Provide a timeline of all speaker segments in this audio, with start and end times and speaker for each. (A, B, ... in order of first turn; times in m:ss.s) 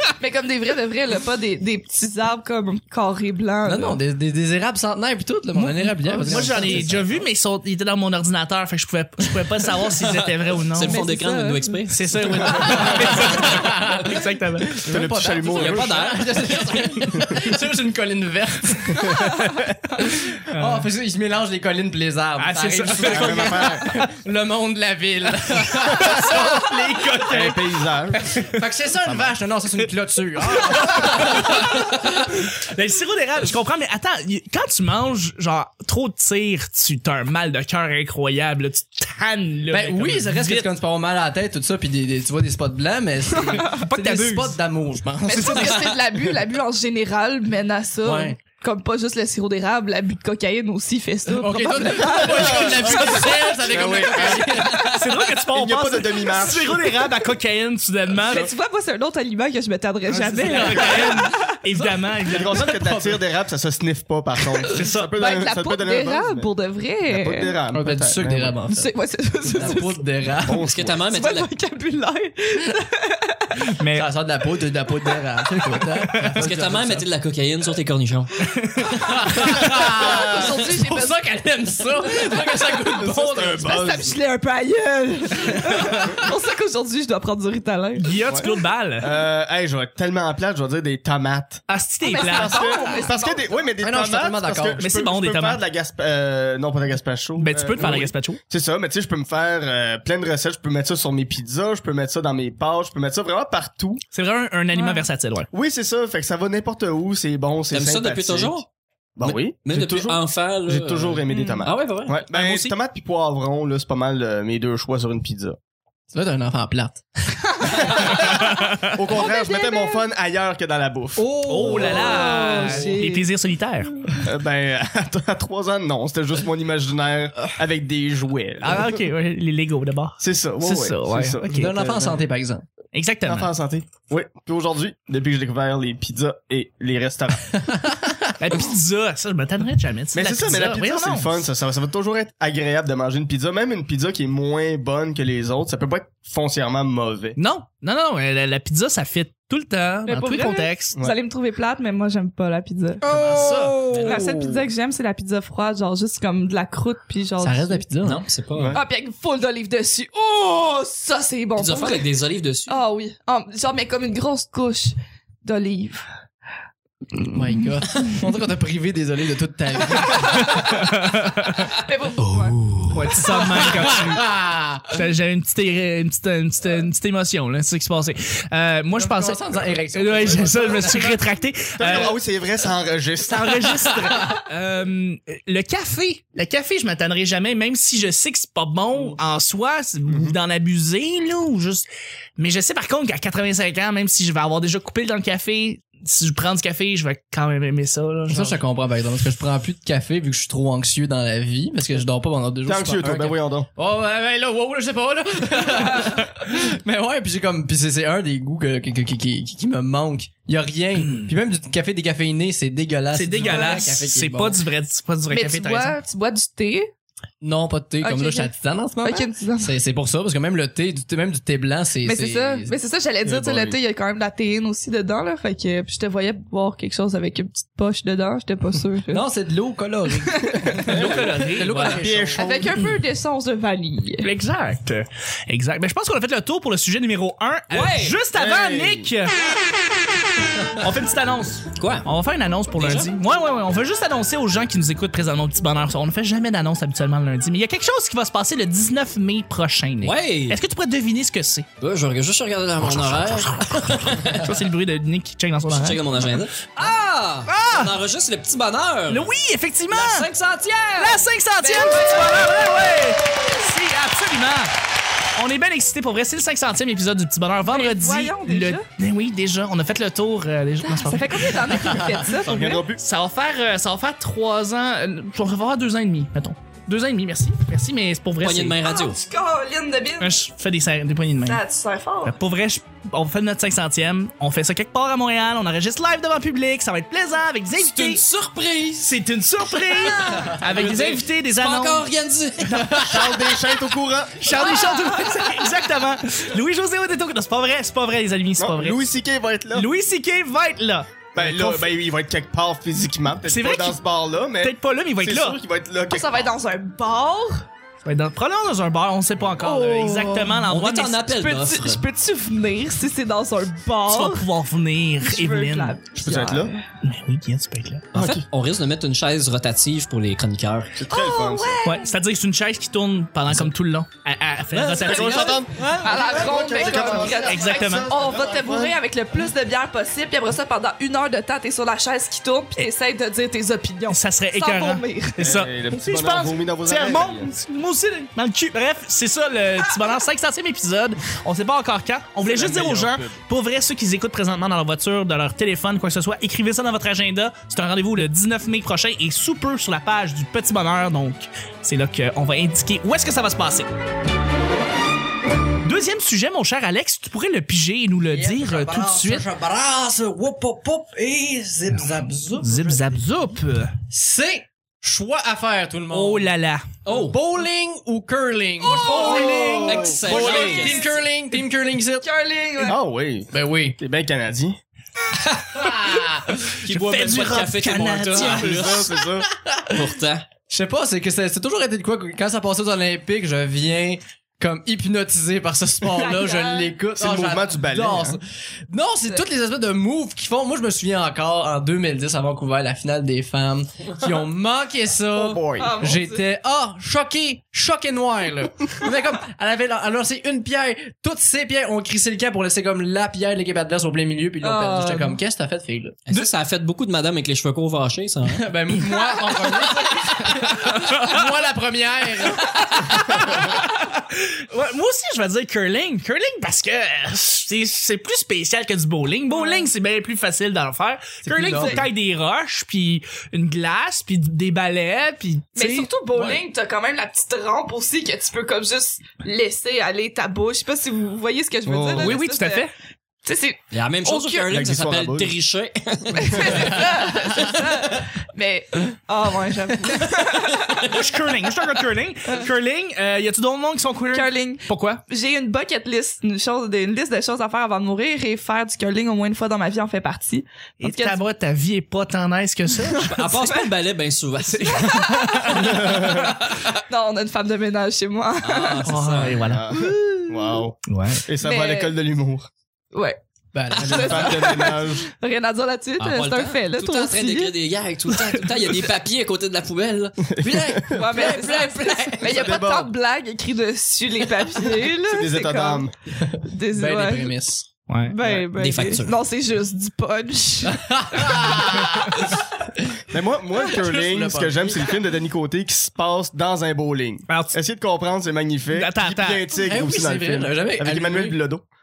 0:00.2-0:04.0 A
0:03.6-0:07.0 B
0:05.5-0:11.0 C
0:09.9-0:13.4 D
0:10.8-0:11.8 A
0:11.9-0:14.8 C
0:12.6-0:14.2 B
0:14.7-0:19.1 B
0:14.8-0:16.0 E
0:15.4-0:17.0 D
0:18.9-0:19.7 E
0:20.0-0:26.7 B
0:20.5-0:20.9 C
0:22.4-0:24.1 C
0:23.0-0:23.9 E
0:25.7-0:28.5 C
0:25.9-0:26.4 E
0:27.3-0:28.2 E
0:28.4-0:32.3 B
0:29.0-0:29.4 E
0:30.4-0:40.7 C
0:39.7-0:46.1 B
0:43.3-0:43.8 A
0:43.6-0:44.6 C
0:45.2-0:53.3 A
0:48.0-0:48.4 B
0:51.3-0:54.9 B
0:52.1-0:54.6 E
0:54.6-0:58.5 C
0:55.5-0:57.0 E
0:58.2-1:01.4 A
1:00.1-1:03.2 B
1:00.4-1:02.8 C
1:02.3-1:06.5 E
1:04.7-1:05.1 C
1:05.2-1:07.5 A
1:07.1-1:08.6 E
1:07.7-1:08.9 B
1:08.7-1:10.0 A
1:09.4-1:10.6 B
1:10.4-1:11.0 E
1:10.6-1:11.5 D
1:11.1-1:13.6 A
1:13.8-1:14.1 C
1:13.9-1:17.0 B
1:16.4-1:18.4 D
1:18.5-1:18.9 C
1:18.9-1:23.7 B
1:19.5-1:21.2 A
1:20.0-1:20.4 E
1:22.2-1:22.5 A
1:22.9-1:24.2 E
1:23.6-1:28.1 A
1:28.0-1:29.1 C
1:28.3-1:44.0 E
1:31.7-1:32.8 C
1:32.0-1:33.6 A
1:33.8-1:34.8 B
1:34.8-1:35.6 C
1:37.4-1:38.4 C
1:44.1-1:45.5 C
1:44.7-1:45.0 A
1:45.5-1:48.6 E
1:47.7-1:48.7 D
1:49.2-1:55.6 E
1:49.2-1:52.2 D
1:51.3-1:51.6 A
1:52.3-1:52.7 C
1:56.1-1:57.4 B
1:57.6-1:58.2 A
1:57.8-2:01.2 E
1:58.6-1:58.9 C
1:59.1-2:00.0 A
2:01.2-2:02.9 B
2:01.4-2:03.9 C
2:01.7-2:03.2 A
2:04.2-2:09.0 E
2:08.6-2:11.7 C
2:10.2-2:12.2 E
2:11.5-2:12.6 B
2:12.9-2:13.5 C
2:13.2-2:17.6 E
2:17.7-2:18.2 B
2:18.4-2:21.3 C
2:20.1-2:27.4 E
2:27.4-2:31.0 C
2:30.1-2:33.2 A
2:33.0-2:33.9 C
2:33.0-2:34.6 B
2:33.9-2:34.3 D
2:33.9-2:37.8 A
2:37.4-2:38.2 B
2:38.0-2:38.8 D
2:38.5-2:38.8 E
2:38.7-2:42.1 A
2:41.5-2:42.8 D
2:42.7-2:46.0 A
2:47.3-2:50.5 B
2:50.1-2:50.7 A
2:50.6-2:51.6 C
2:51.6-2:53.6 A
2:52.6-2:54.9 B
2:52.8-2:54.3 C
2:54.8-3:02.2 C
2:58.9-3:01.2 B
3:01.7-3:03.8 E
3:03.2-3:11.8 C
3:10.1-3:10.4 E
3:12.4-3:18.6 C
3:18.3-3:34.6 B
3:22.6-3:23.7 E
3:31.0-3:31.3 C
3:33.1-3:36.0 C
3:33.4-3:33.9 A
3:35.3-3:36.9 A
3:37.4-3:42.7 B
3:38.0-3:38.5 A
3:39.0-3:39.7 A
3:42.0-3:49.2 A
3:43.2-3:43.8 E
3:49.1-3:52.7 B
3:50.2-3:50.8 A
3:50.8-3:52.0 C
3:50.9-3:52.7 E
3:52.4-3:54.3 A
3:54.2-3:59.4 C
3:57.7-3:58.2 D
3:58.3-3:59.1 E
4:00.7-4:11.7 C
4:01.7-4:02.1 D
4:02.7-4:03.2 D
4:10.0-4:10.6 D
4:11.8-4:14.5 D
4:12.8-4:16.3 C
4:15.7-4:19.3 D
4:17.5-4:17.9 C
4:19.1-4:20.3 C
4:19.9-4:21.2 D
4:21.0-4:24.7 C
4:21.6-4:22.5 A
4:25.4-4:31.7 C
4:27.7-4:28.8 A
4:30.8-4:32.8 A
4:32.3-4:33.0 E
4:33.0-4:38.8 C
4:38.4-4:39.2 D
4:38.8-4:40.3 A
4:40.2-4:41.6 C
4:41.4-4:42.3 A
4:42.2-4:48.2 C
4:47.8-4:49.2 D
4:49.0-4:52.1 C
4:49.8-4:53.2 D
4:52.6-4:53.1 C
4:53.0-4:54.6 E
4:54.4-4:59.0 C
4:54.8-4:55.3 A
4:58.6-4:59.9 E
4:59.7-5:01.9 C
5:01.3-5:06.5 E
5:03.5-5:04.0 C
5:04.6-5:05.6 C
5:06.1-5:07.6 A
5:08.0-5:11.3 C
5:09.6-5:10.6 A
5:10.6-5:12.0 D
5:11.3-5:14.4 A
5:14.0-5:16.0 C
5:15.2-5:16.8 A
5:16.1-5:16.7 E
5:17.0-5:18.1 C
5:18.1-5:21.0 D
5:18.1-5:18.4 E
5:21.0-5:21.8 E
5:21.1-5:22.1 A
5:21.8-5:25.6 C
5:24.7-5:25.6 D
5:25.0-5:29.0 E
5:25.7-5:27.3 B
5:26.0-5:35.5 A
5:26.8-5:28.1 C
5:34.1-5:53.9 C
5:35.4-5:37.5 E
5:42.4-5:43.4 E
5:55.8-5:59.4 C
5:58.3-6:03.2 B
6:02.6-6:03.9 C
6:04.1-6:06.5 B
6:06.1-6:06.8 C
6:07.0-6:07.4 D
6:07.1-6:12.3 B
6:08.8-6:11.1 A
6:08.9-6:10.1 C
6:09.0-6:10.8 E
6:09.8-6:11.1 D
6:12.2-6:13.0 A
6:12.8-6:14.8 E
6:13.5-6:14.0 B
6:15.7-6:16.5 B
6:16.7-6:19.0 C
6:16.7-6:19.1 D
6:18.3-6:19.5 E
6:19.6-6:20.0 B
6:19.9-6:20.5 D
6:20.6-6:46.2 B
6:26.1-6:26.9 A
6:27.2-6:28.4 E
6:35.3-6:36.0 E
6:35.8-6:36.4 A
6:44.6-6:45.4 A
6:46.3-6:48.7 D
6:48.5-6:53.6 B
6:51.0-6:51.4 C
6:52.8-7:06.1 C
6:59.5-6:59.9 A
7:01.4-7:02.1 B
7:05.8-7:12.9 A
7:06.3-7:06.6 B
7:11.8-7:12.4 E
7:12.1-7:12.9 C
7:13.4-7:14.7 A
7:13.9-7:17.1 D
7:14.7-7:15.5 E
7:16.3-7:21.1 A
7:21.0-7:25.2 C
7:24.3-7:31.4 A
7:31.0-7:33.5 C
7:33.2-7:35.4 D
7:33.6-7:33.9 A
7:34.8-7:36.5 A
7:35.8-7:36.5 E
7:37.1-7:39.1 A
7:38.6-7:39.7 D
7:39.0-7:39.9 C
7:39.6-7:42.7 E
7:39.9-7:40.8 A
7:41.1-7:41.4 C
7:41.6-7:42.1 A
7:43.1-7:43.4 A
7:43.7-7:44.8 B
7:43.9-7:47.7 A
7:44.0-7:45.3 E
7:46.2-7:52.5 D
7:50.5-7:51.4 E
7:50.6-7:52.4 B
7:51.1-7:56.1 A
7:52.4-7:53.1 E
7:55.2-7:56.1 E
7:56.4-7:57.8 B
7:56.6-7:57.6 A
7:58.1-7:58.4 C
7:58.2-8:02.0 A
7:58.4-7:59.4 D
8:00.8-8:02.6 B
8:03.3-8:11.8 E
8:03.9-8:05.1 B
8:07.5-8:07.8 C
8:08.9-8:09.7 C
8:09.8-8:11.6 B